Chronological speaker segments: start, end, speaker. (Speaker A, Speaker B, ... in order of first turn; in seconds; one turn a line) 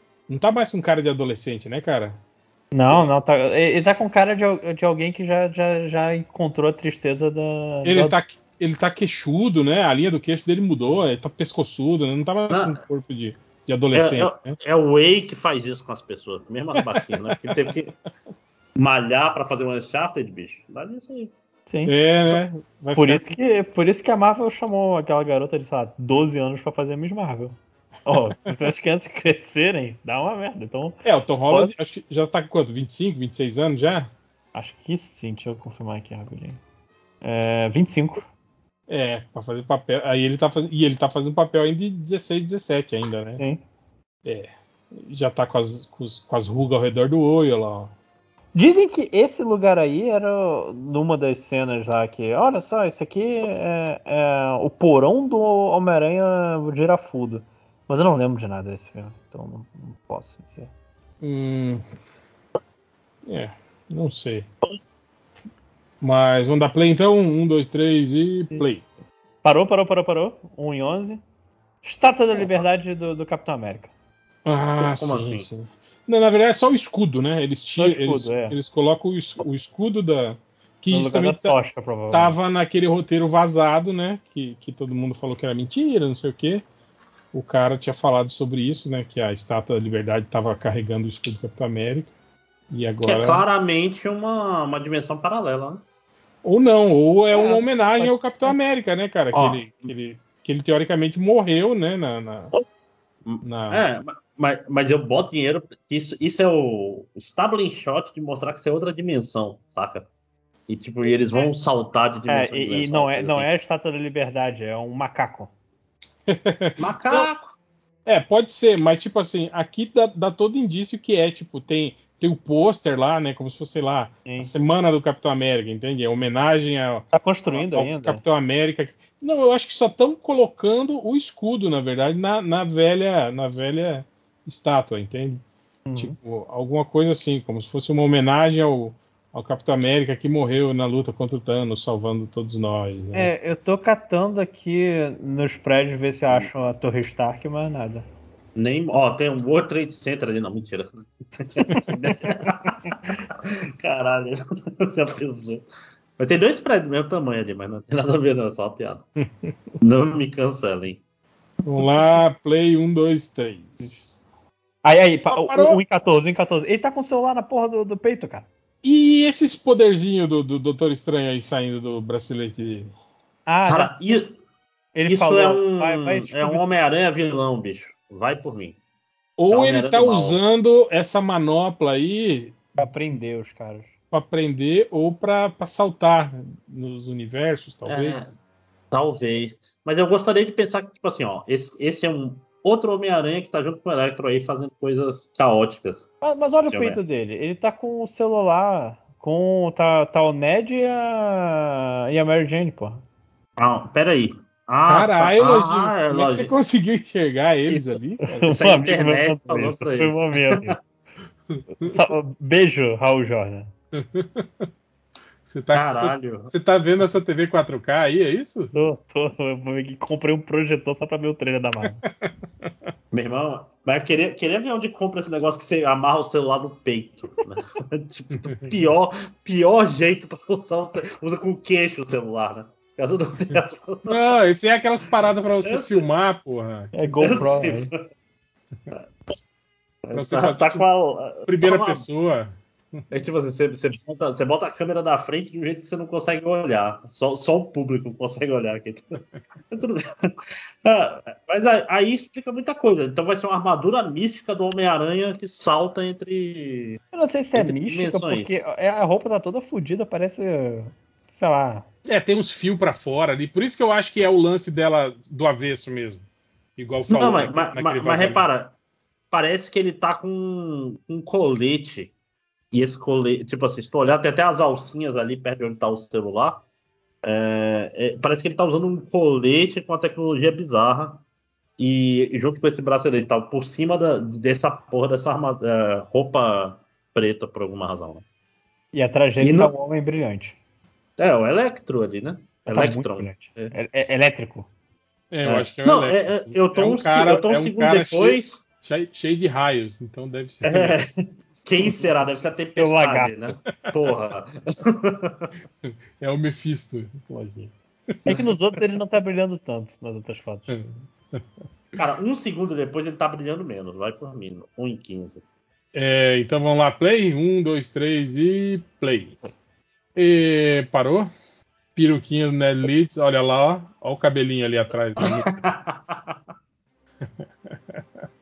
Speaker A: 0.3-2.2
Speaker B: 2.7-8.2
Speaker A: 7.8-14.6
Speaker C: 12.5-12.8
Speaker C: 13.9-17.9
Speaker A: 16.8-17.7
Speaker C: 18.8-21.3
Speaker B: 21.7-21.9
Speaker A: 21.9-23.4
Speaker B: 23.0-31.0
Speaker A: 28.1-28.5
Speaker A: 31.0-34.1
Speaker B: 34.5-36.6
Speaker B: 37.2-38.3
Speaker A: 38.9-43.4
Speaker A: 44.2-47.9
Speaker B: 48.5-60.7
Speaker A: 61.2-61.8
Speaker A: 63.2-64.5
Speaker A: 66.0-68.8
Speaker B: 69.4-71.2
Speaker B: 71.8-73.9
Speaker A: 74.5-81.5
Speaker C: 74.8-75.5
Speaker B: 77.8-78.6
Speaker B: 80.9-82.3
Speaker A: 82.1-86.6
Speaker A: 87.3-92.1
Speaker A: 92.7-93.5
Speaker C: 93.0-95.8
Speaker A: 96.4-102.5
Speaker B: 97.3-98.2
Speaker C: 99.3-99.9
Speaker C: 103.2-110.1
Speaker A: 103.4-103.8
Speaker C: 110.7-113.5
Speaker B: 112.3-115.5
Speaker A: 116.3-117.3
Speaker C: 116.8-117.6
Speaker A: 118.1-135.4
Speaker B: 124.2-124.5
Speaker B: 127.1-128.2
Speaker B: 135.9-136.2
Speaker A: 136.0-143.3
Speaker B: 143.1-148.1
Speaker C: 148.6-155.7
Speaker B: 151.7-152.3
Speaker C: 156.2-159.1
Speaker A: 159.2-159.5
Speaker C: 159.8-161.0
Speaker A: 161.7-164.2
Speaker B: 164.8-168.5
Speaker A: 165.3-165.8
Speaker A: 168.8-172.9
Speaker B: 173.5-174.2
Speaker C: 173.7-174.4
Speaker B: 174.9-176.6
Speaker C: 175.1-178.8
Speaker A: 179.4-182.6
Speaker C: 179.5-180.4
Speaker B: 182.8-183.9
Speaker A: 184.1-188.4
Speaker C: 187.9-188.3
Speaker C: 188.9-196.1
Speaker B: 196.2-203.0
Speaker C: 196.7-197.0
Speaker C: 203.6-206.5
Speaker A: 204.8-208.8
Speaker C: 207.7-210.7
Speaker B: 208.4-210.8
Speaker A: 211.5-212.0
Speaker B: 211.8-213.7
Speaker A: 213.9-214.7
Speaker A: 215.5-218.7
Speaker C: 215.7-216.5
Speaker B: 218.7-222.0
Speaker A: 221.8-222.7
Speaker C: 223.1-234.2
Speaker A: 234.1-237.4
Speaker C: 235.6-236.1
Speaker B: 236.9-237.9
Speaker C: 237.2-238.0
Speaker C: 240.0-242.1
Speaker A: 240.1-240.9
Speaker A: 241.5-243.0
Speaker C: 243.1-257.0
Speaker B: 257.1-261.9
Speaker C: 257.6-258.7
Speaker A: 262.1-268.5
Speaker C: 267.1-268.7
Speaker C: 269.3-272.1
Speaker C: 272.7-276.6
Speaker C: 277.2-281.2
Speaker C: 281.8-288.2
Speaker B: 288.9-290.6
Speaker C: 289.4-289.7
Speaker C: 291.2-293.7
Speaker B: 292.7-294.7
Speaker A: 295.3-301.0
Speaker C: 295.4-298.6
Speaker C: 300.6-305.5
Speaker B: 302.7-303.3
Speaker A: 305.9-308.4
Speaker B: 308.2-310.7
Speaker A: 310.7-311.4
Speaker C: 312.0-315.4
Speaker A: 315.9-319.4
Speaker A: 320.2-321.3
Speaker A: 322.0-325.5
Speaker C: 325.2-326.2